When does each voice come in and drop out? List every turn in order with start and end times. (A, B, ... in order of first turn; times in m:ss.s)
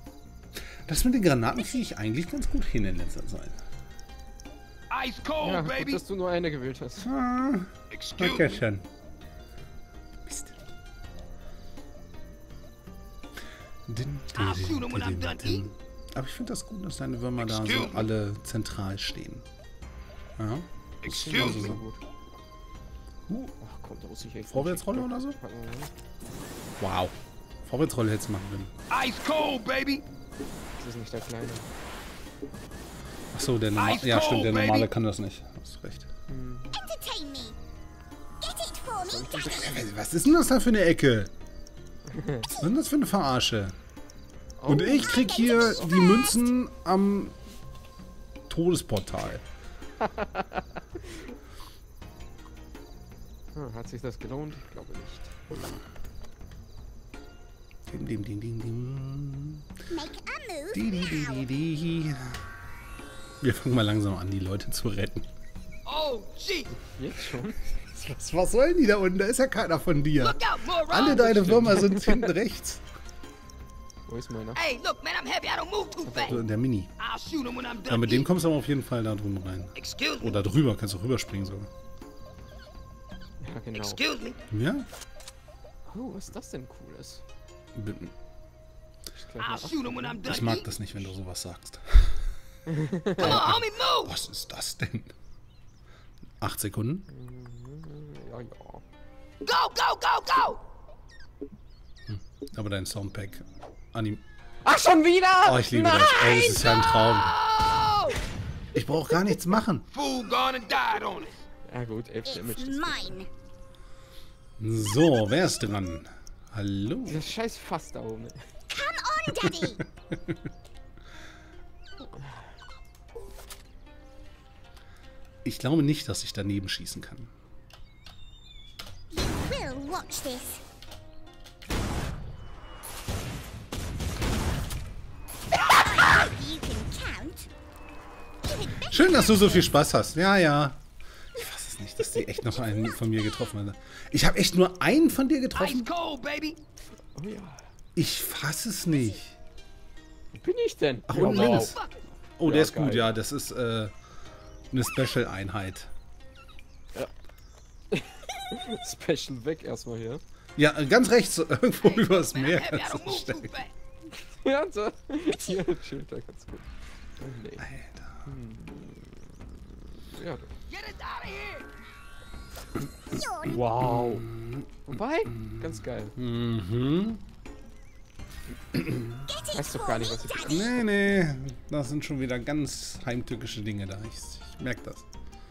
0:00.9-0:03.6 A
0:04.9-0:06.0 B
0:05.4-0:07.1 C
0:07.0-0:08.9 A
0:07.9-0:08.6 B
0:10.2-0:10.6 A
0:13.9-0:19.4 A
0:14.3-0:15.7 B
0:17.4-0:18.1 B
0:20.4-0:21.8 A
0:21.0-0:21.8 B
0:21.0-0:22.0 C
0:23.3-0:23.5 A
0:23.6-0:25.9 C
0:24.5-0:25.4 A
0:26.8-0:28.7 A
0:28.9-0:30.0 B
0:30.8-0:31.7 C
0:33.3-0:36.1 A
0:33.7-0:34.9 B
0:36.3-0:36.8 C
0:36.7-0:37.6 D
0:38.4-0:39.8 D
0:39.0-0:39.8 C
0:39.4-0:41.3 A
0:42.1-0:42.5 C
0:42.5-0:43.8 A
0:44.6-0:45.2 C
0:44.7-0:47.4 A
0:44.7-0:46.4 D
0:48.5-0:49.4 A
0:50.0-0:51.2 C
0:53.5-0:55.3 C
0:57.9-0:59.7 A
0:59.9-1:01.5 D
1:00.7-1:02.4 A
1:03.4-1:05.3 A
1:05.8-1:06.7 B
1:07.0-1:07.6 C
1:07.7-1:12.8 A
1:10.2-1:11.5 B
1:11.1-1:12.3 C
1:14.1-1:14.6 C
1:14.6-1:16.4 B
1:16.0-1:16.4 C
1:16.2-1:16.9 A
1:17.0-1:18.3 B
1:17.9-1:21.7 A
1:19.8-1:20.4 B
1:23.4-1:24.0 C
1:23.8-1:24.4 B
1:24.5-1:24.9 A
1:25.9-1:27.2 C
1:27.7-1:28.1 A
1:29.1-1:30.2 C
1:29.4-1:30.9 B
1:30.2-1:32.2 A
1:32.7-1:33.5 C
1:33.2-1:34.1 B
1:33.2-1:35.1 A
1:36.4-1:37.1 A
1:37.1-1:38.8 C
1:39.4-1:40.6 B
1:42.1-1:44.2 A
1:44.6-1:46.6 C
1:45.4-1:47.4 A
1:47.0-1:48.2 B
1:48.7-1:49.8 A
1:49.9-1:51.4 B
1:51.7-1:53.2 C
1:52.2-1:53.3 D
1:54.6-1:57.2 A
1:57.0-1:58.4 C
1:58.7-1:59.8 D
1:59.4-2:00.3 A
2:05.4-2:07.3 A
2:09.1-2:10.6 D
2:15.5-2:17.5 D
2:18.4-2:19.6 D
2:18.8-2:20.8 A
2:21.3-2:25.9 A
2:25.5-2:26.6 B
2:27.1-2:27.6 C
2:28.0-2:29.4 A
2:30.3-2:31.8 C
2:31.1-2:31.8 A
2:31.2-2:32.0 B
2:32.4-2:33.9 A
2:32.4-2:33.1 C
2:34.7-2:35.9 A
2:37.9-2:40.2 C
2:40.6-2:43.6 A
2:41.8-2:43.7 B
2:44.2-2:46.6 C
2:47.2-2:47.7 C
2:47.6-2:48.3 A
2:48.2-2:50.5 C
2:50.7-2:51.7 B
2:53.1-2:53.6 D
2:53.5-2:54.3 C
2:53.8-2:54.7 A
2:54.9-2:56.2 C
2:55.3-2:57.2 A
2:59.3-3:00.8 D
2:59.4-3:00.8 C
3:00.4-3:05.0 A